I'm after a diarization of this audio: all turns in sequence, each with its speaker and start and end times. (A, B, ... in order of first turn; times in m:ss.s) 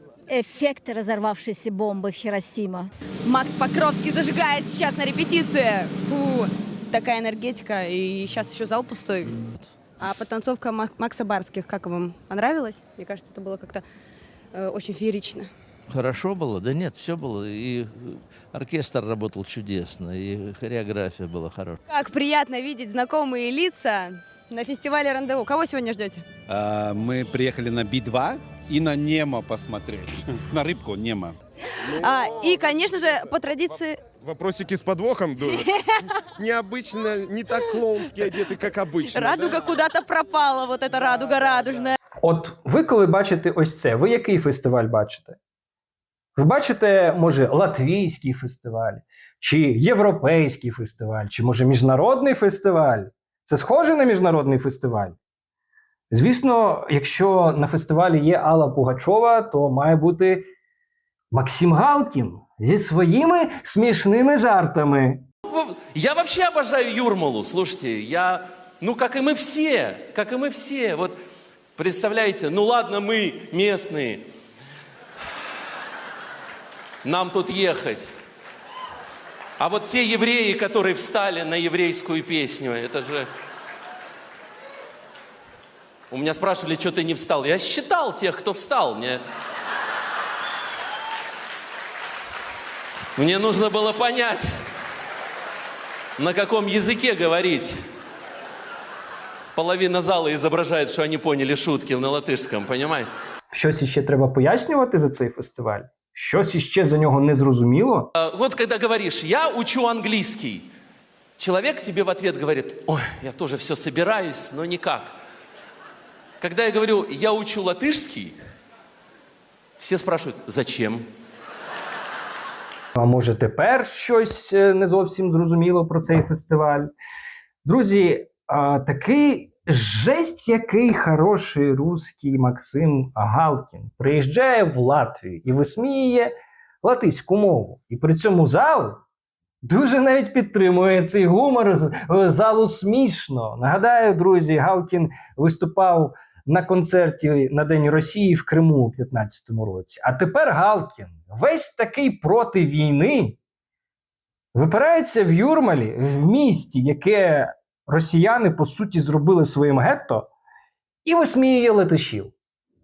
0:00.3-0:02.9 A
0:03.2-0:09.3 B
0:10.0-0:13.8 B
0:14.5-0:15.5 B
0:15.9-0:21.8 C
0:21.9-0:26.2 B
0:26.5-0:31.4 D
0:31.8-0:34.0 B
0:34.2-0:35.6 E
0:35.5-0:36.1 B
0:36.4-0:39.7 E
0:39.1-0:42.0 B
0:42.2-0:45.4 F
0:46.4-0:55.2 F
0:56.1-1:00.4 F
1:01.3-1:05.2 F
1:05.5-1:11.2 G
1:11.8-1:14.2 G
1:17.0-1:18.1 G
1:19.6-1:23.3 G
1:26.1-1:29.2 G
1:33.2-1:34.5 G
1:36.2-1:37.8 G
1:39.5-1:43.1 G
1:43.5-1:48.1 F
1:48.2-1:50.7 G
1:51.4-1:55.2 G
1:56.4-1:58.4 G
1:59.8-2:01.0 G
2:02.9-2:06.9 F
2:07.6-2:16.3 F
2:16.8-2:19.0 F
2:19.6-2:33.4 F
2:34.5-2:40.3 F
2:41.0-2:42.3 F